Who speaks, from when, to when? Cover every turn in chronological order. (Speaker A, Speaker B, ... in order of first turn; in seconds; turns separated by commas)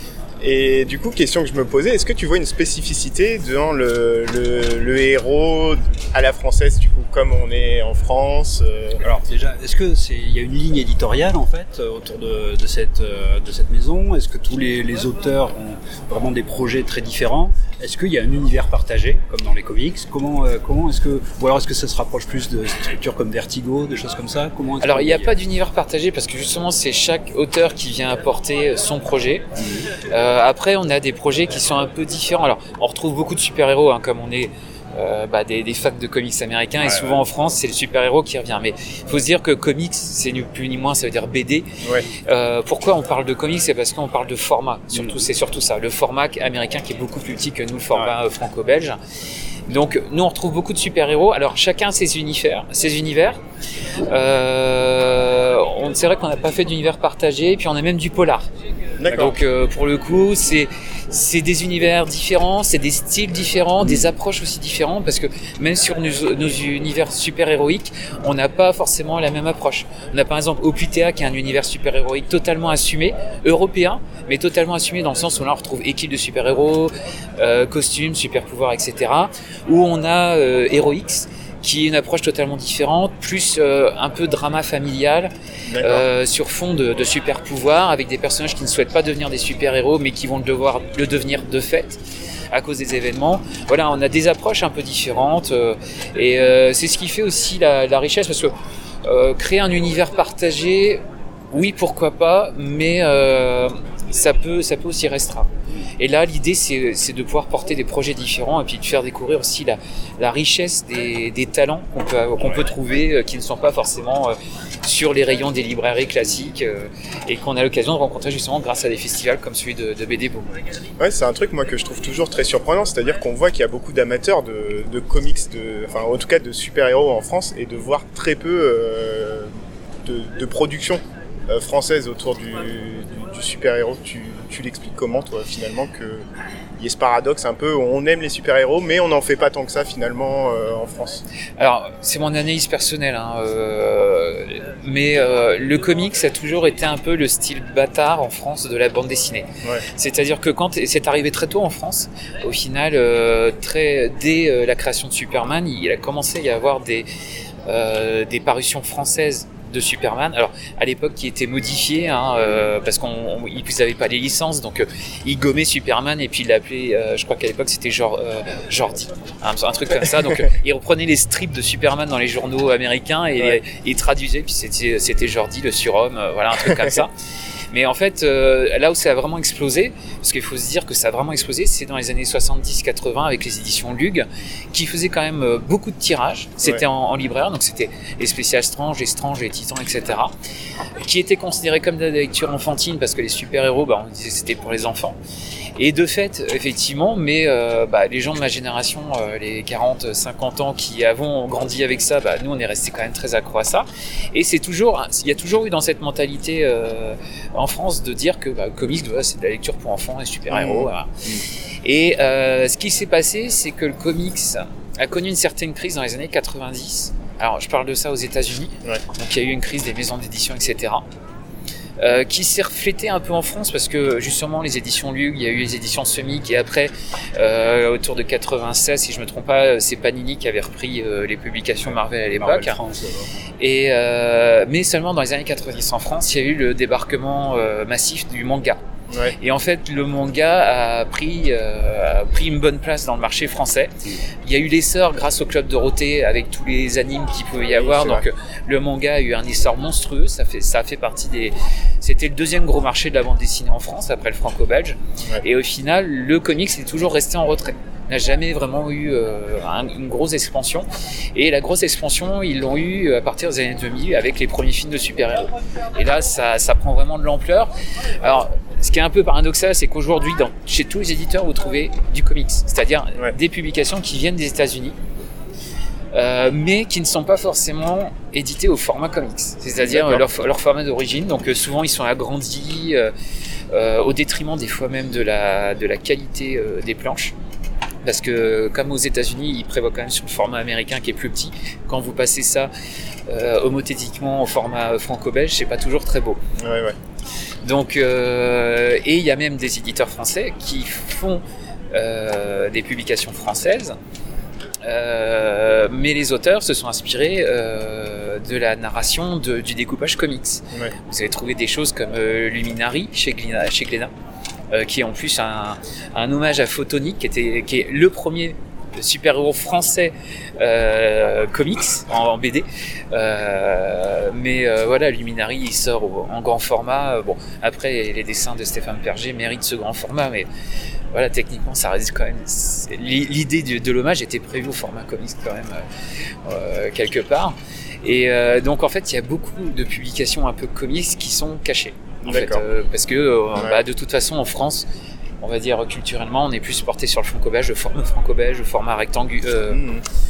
Speaker A: 0.4-9.0, Speaker B: 9.0-25.4, Speaker C: 24.8-29.5, Speaker B: 29.6-29.9, Speaker C: 30.0-41.7, Speaker B: 36.8-37.3, Speaker C: 42.3-49.0, Speaker B: 44.9-45.2, Speaker C: 49.7-53.4, Speaker C: 54.1-58.5, Speaker A: 59.0-59.4, Speaker C: 59.1-92.0, Speaker A: 85.7-86.1, Speaker C: 92.5-98.5, Speaker C: 99.1-101.0, Speaker C: 101.5-120.5, Speaker A: 121.0-129.5, Speaker A: 130.1-136.3, Speaker A: 136.8-141.2, Speaker C: 141.6-157.1, Speaker C: 157.7-177.1, Speaker C: 177.7-190.3, Speaker C: 191.0-195.2, Speaker C: 195.8-211.1, Speaker A: 210.5-210.9, Speaker C: 211.8-221.0, Speaker C: 222.0-232.8, Speaker B: 231.8-233.3, Speaker C: 233.6-238.8, Speaker A: 239.1-239.3, Speaker C: 239.4-243.9, Speaker C: 244.5-267.7, Speaker A: 247.7-248.2, Speaker C: 268.2-275.0, Speaker C: 276.1-283.1, Speaker A: 279.8-280.3, Speaker C: 283.7-287.3, Speaker C: 288.0-292.7, Speaker C: 293.3-296.4, Speaker A: 296.6-297.0, Speaker C: 297.6-301.4, Speaker C: 301.9-304.0, Speaker C: 304.8-314.1, Speaker C: 314.7-330.5, Speaker C: 331.1-335.8, Speaker C: 336.5-344.9, Speaker A: 342.2-342.6, Speaker C: 345.4-349.9, Speaker A: 349.7-350.0